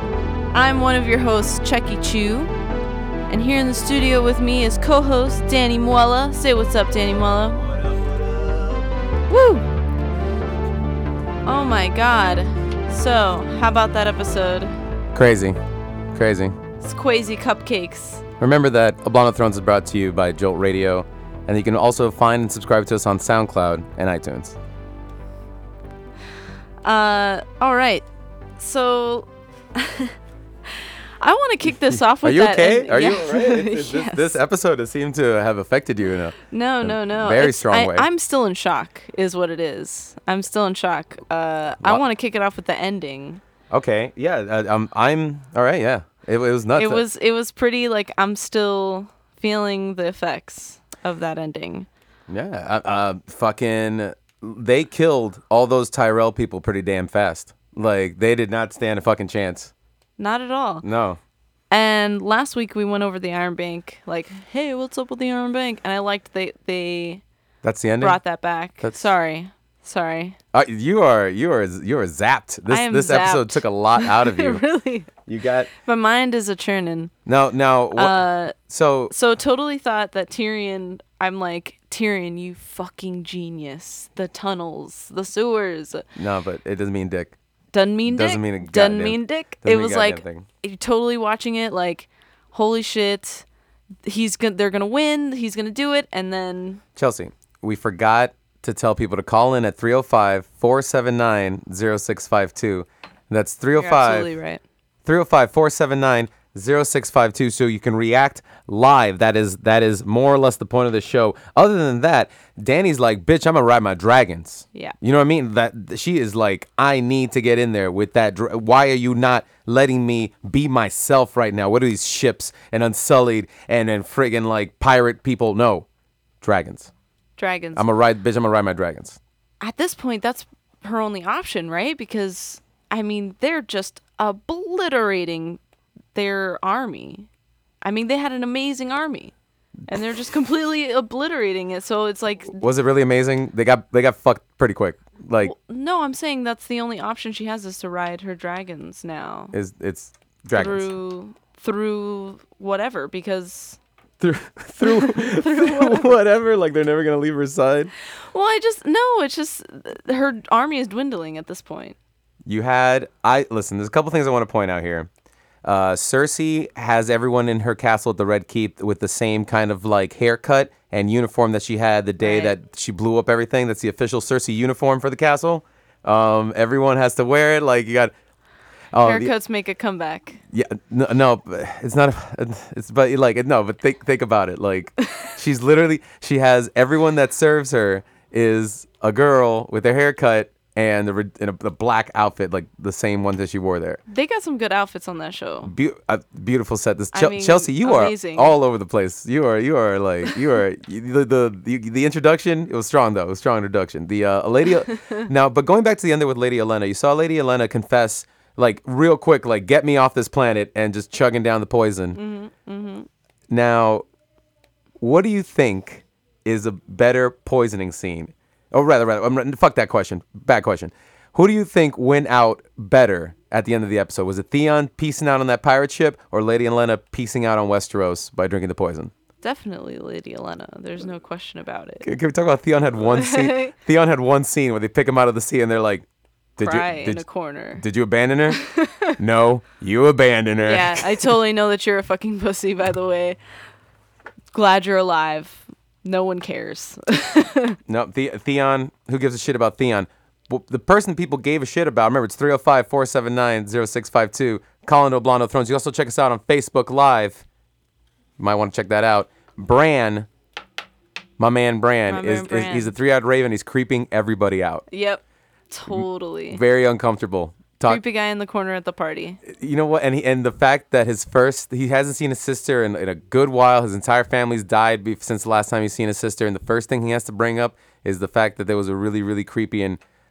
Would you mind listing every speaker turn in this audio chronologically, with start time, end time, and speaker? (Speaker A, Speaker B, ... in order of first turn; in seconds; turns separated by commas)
Speaker A: 0.5-2.5, Speaker A: 3.3-7.7, Speaker A: 9.3-9.7, Speaker A: 11.4-14.7, Speaker B: 15.1-15.6, Speaker B: 16.1-16.6, Speaker A: 16.8-18.2, Speaker B: 18.4-24.6, Speaker A: 26.8-28.1, Speaker A: 28.6-30.1, Speaker A: 30.7-34.4, Speaker B: 31.8-38.1, Speaker A: 36.5-43.4, Speaker B: 43.7-47.0, Speaker A: 46.8-51.9, Speaker B: 52.3-59.7, Speaker A: 60.2-60.9, Speaker B: 60.8-61.2, Speaker A: 61.7-67.2, Speaker B: 67.6-68.2, Speaker A: 68.0-70.4, Speaker B: 68.8-69.1, Speaker B: 70.5-74.6, Speaker A: 72.7-75.1, Speaker B: 75.2-75.7, Speaker A: 75.8-77.1, Speaker B: 77.2-79.1, Speaker A: 77.9-78.5, Speaker A: 79.1-86.0, Speaker B: 86.2-87.3, Speaker A: 87.7-93.4, Speaker B: 88.0-90.5, Speaker A: 94.0-96.8, Speaker B: 97.0-104.3, Speaker A: 103.8-104.6, Speaker B: 105.0-125.8, Speaker B: 126.4-126.9, Speaker A: 127.4-127.8, Speaker B: 127.7-129.2, Speaker A: 129.6-135.6, Speaker A: 136.1-137.3, Speaker A: 137.8-139.3, Speaker A: 139.9-142.6, Speaker B: 142.5-145.5, Speaker A: 145.4-149.5, Speaker B: 149.5-150.9, Speaker A: 150.5-153.8, Speaker B: 154.2-157.9, Speaker A: 154.8-156.1, Speaker A: 158.3-161.9, Speaker B: 162.4-165.1, Speaker B: 165.6-178.1, Speaker A: 172.2-172.5, Speaker B: 178.9-179.3, Speaker A: 179.0-180.4, Speaker B: 180.5-194.0, Speaker A: 194.1-195.7, Speaker B: 195.6-212.2, Speaker A: 197.1-198.6, Speaker A: 212.1-213.1, Speaker B: 213.5-214.1, Speaker B: 215.0-229.1, Speaker A: 229.4-232.1, Speaker B: 232.0-236.0, Speaker A: 233.1-233.7, Speaker B: 236.6-237.2, Speaker A: 236.6-237.8, Speaker B: 237.8-238.6, Speaker A: 238.5-239.2, Speaker B: 239.2-241.3, Speaker A: 240.7-243.4, Speaker A: 244.5-247.8, Speaker B: 247.9-257.4, Speaker B: 258.4-260.3, Speaker B: 261.4-264.8, Speaker A: 262.1-262.9, Speaker A: 264.9-266.6, Speaker B: 265.9-268.0, Speaker A: 267.9-269.4, Speaker B: 269.4-280.0